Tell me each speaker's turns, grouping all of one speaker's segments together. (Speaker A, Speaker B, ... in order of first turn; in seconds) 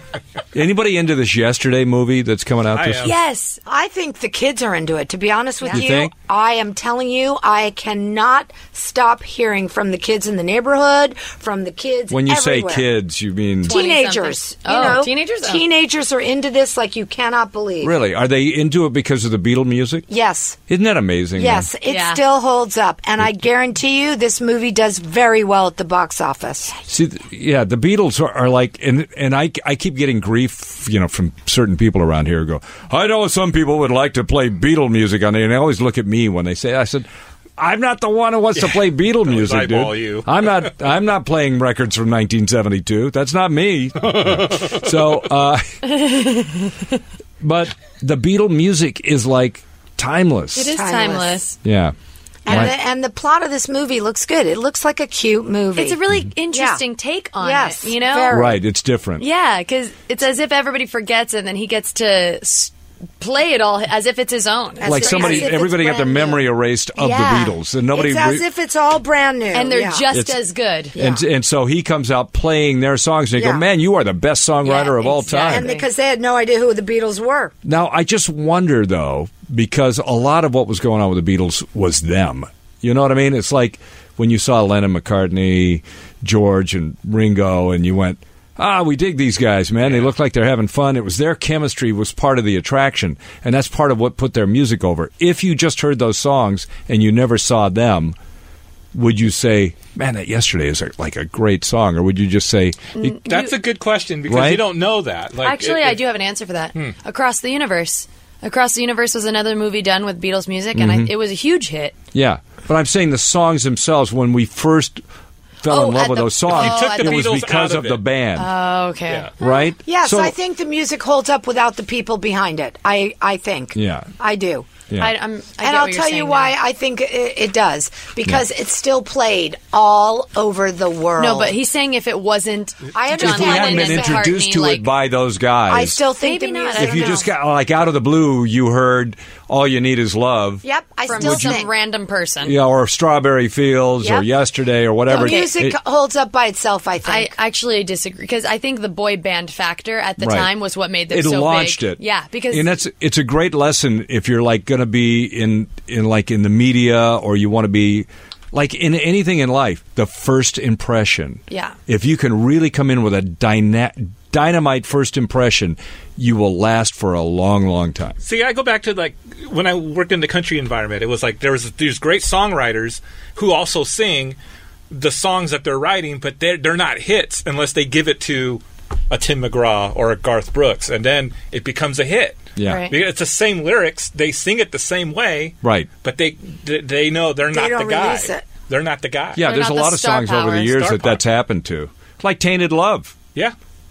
Speaker A: 0.5-3.1, 5.7-6.1, 12.1-13.8, 17.8-20.1, 20.7-21.7, 26.9-46.0, 47.4-50.7, 51.6-51.9, 52.5-52.7, 58.3-59.2, 64.8-68.4, 70.1-70.4, 70.9-75.7, 77.6-98.2, 98.9-103.5, 104.2-104.7, 110.7-111.1, 112.1-115.0, 115.6-118.5, 119.4-120.3, 123.7-124.1, 133.2-136.0, 136.8-140.6, 141.2-141.5, 142.4-145.8, 150.2-150.5, 151.1-168.2, 182.6-182.9, 185.6-185.9, 189.3-193.1
Speaker B: 2.7-3.1, 38.5-40.7, 44.0-44.8, 89.8-90.1, 103.2-106.0, 116.5-118.0, 133.2-133.4, 168.2-174.4, 174.9-189.4, 190.7-191.2
Speaker C: 3.0-3.6, 13.6-15.6, 21.8-22.2, 45.9-46.7, 50.5-51.6, 55.8-58.5, 59.2-65.5, 69.5-71.0, 74.6-75.8, 103.0-103.5, 105.4-111.9, 115.7-117.3, 118.4-119.3, 125.0-126.5, 131.2-134.9, 136.2-137.3, 141.1-142.6, 145.1-145.5, 147.0-152.7, 161.5-161.8, 182.6-182.9, 189.4-190.8
Speaker D: 3.6-12.9, 13.6-17.9, 20.1-20.6, 21.4-26.7, 50.7-51.4, 52.4-56.0, 56.5-56.8, 57.4-58.6, 64.8-70.0, 70.9-71.2, 73.3-73.6, 75.5-77.5, 119.4-124.7, 125.6-131.6, 132.9-134.2, 135.7-137.2, 140.6-141.7, 144.0-144.3, 145.1-147.3, 187.5-188.4